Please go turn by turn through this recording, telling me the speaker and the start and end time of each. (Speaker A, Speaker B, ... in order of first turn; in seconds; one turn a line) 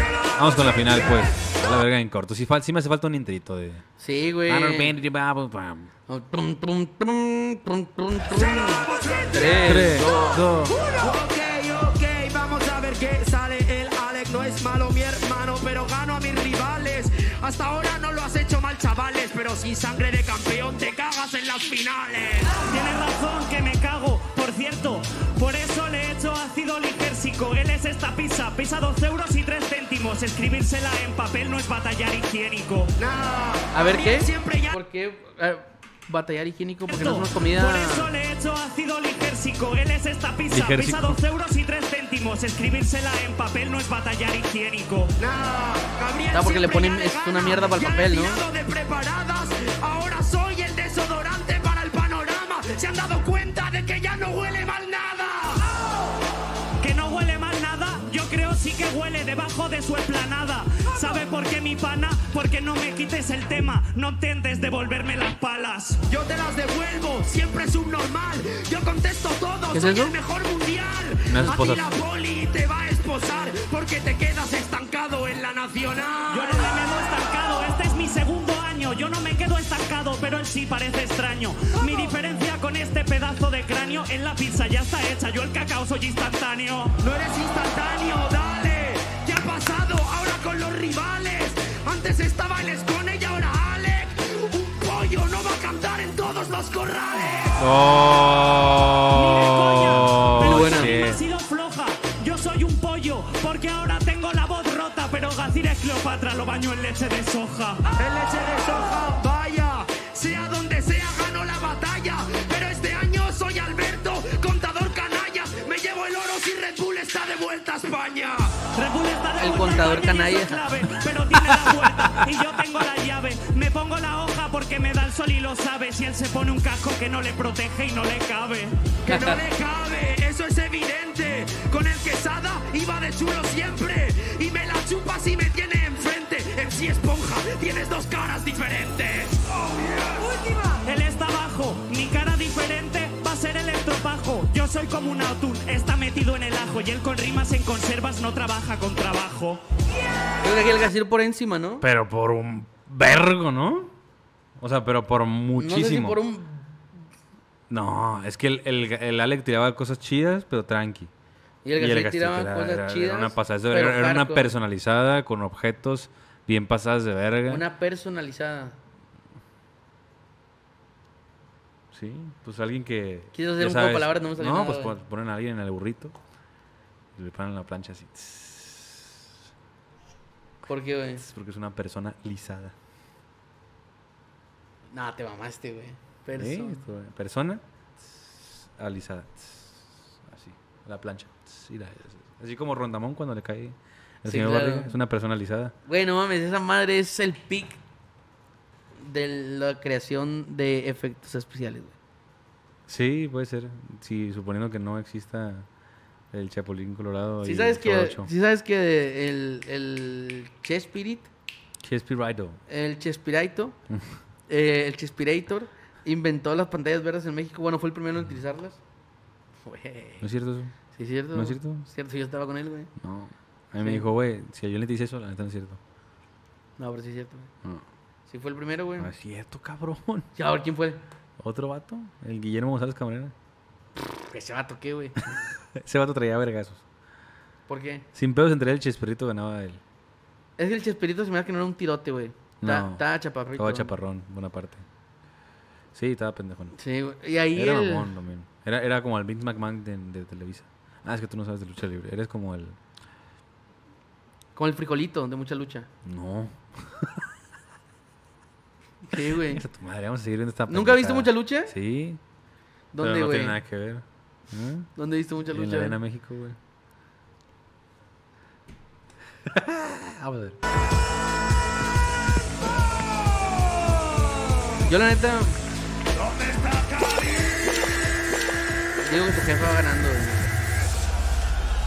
Speaker A: 0.3-3.8
Speaker B: 4.0-5.0
Speaker A: 4.5-5.9
Speaker B: 6.1-10.4
Speaker C: 8.3-10.0
Speaker A: 9.4-10.8
Speaker C: 10.7-22.6
Speaker D: 22.6-33.0
Speaker C: 33.0-34.7
Speaker B: 33.7-38.1
Speaker D: 36.9-45.1
Speaker A: 40.5-41.2
Speaker C: 45.2-55.7
Speaker B: 46.3-48.4
Speaker D: 56.8-66.0
Speaker C: 66.1-76.7
Speaker B: 69.7-70.1
Speaker A: 71.3-71.9
Speaker D: 76.3-87.0
Speaker C: 81.8-82.1
Speaker C: 87.0-97.6
Speaker A: 97.6-101.2
Speaker D: 99.1-107.8
Speaker B: 100.4-100.9
Speaker C: 107.9-118.6
Speaker D: 118.7-129.0
Speaker B: 119.4-120.6
Speaker B: 129.1-129.4
Speaker C: 129.1-140.2
Speaker D: 140.3-149.6
Speaker B: 150.4-151.8
Speaker A: 151.8-153.9
Speaker A: 154.6-156.2
Speaker B: 155.6-156.8
Speaker A: 157.7-161.1
Speaker B: 161.7-164.6
Speaker A: 161.8-167.6
Speaker B: 167.5-168.8
Speaker A: 171.9-176.2
Speaker B: 173.3-175.0
Speaker A: 177.2-179.1
Speaker B: 180.7-181.2
Speaker A: 181.2-182.8
Speaker B: 184.9-186.9
Speaker A: 186.4-195.7
Speaker B: 194.2-195.0
Speaker B: 195.9-197.8
Speaker B: 199.0-201.9
Speaker A: 202.9-205.7
Speaker A: 206.3-208.3
Speaker B: 207.4-211.3
Speaker A: 211.8-212.6
Speaker B: 212.7-213.8
Speaker A: 213.9-214.2
Speaker B: 214.5-218.8
Speaker B: 219.7-220.3
Speaker A: 220.2-220.8
Speaker B: 220.9-222.9
Speaker A: 221.3-221.8
Speaker A: 223.0-225.8
Speaker B: 226.8-227.5
Speaker B: 228.3-229.1
Speaker A: 229.0-230.3
Speaker B: 230.4-231.0
Speaker A: 231.4-233.3
Speaker B: 234.2-235.4
Speaker A: 235.8-236.8
Speaker B: 237.7-238.1
Speaker A: 238.1-239.8
Speaker B: 240.6-243.9
Speaker A: 242.6-244.9
Speaker A: 245.9-246.8
Speaker B: 246.8-248.1
Speaker A: 247.5-252.8
Speaker B: 254.6-255.9
Speaker A: 256.1-257.2
Speaker B: 259.0-259.6
Speaker A: 259.3-262.2
Speaker B: 260.7-261.7
Speaker B: 262.9-263.6
Speaker A: 263.0-264.9
Speaker B: 264.9-266.0
Speaker A: 265.5-266.6
Speaker A: 269.5-270.6
Speaker B: 274.8-275.6
Speaker C: 276.2-277.6
Speaker B: 279.0-280.5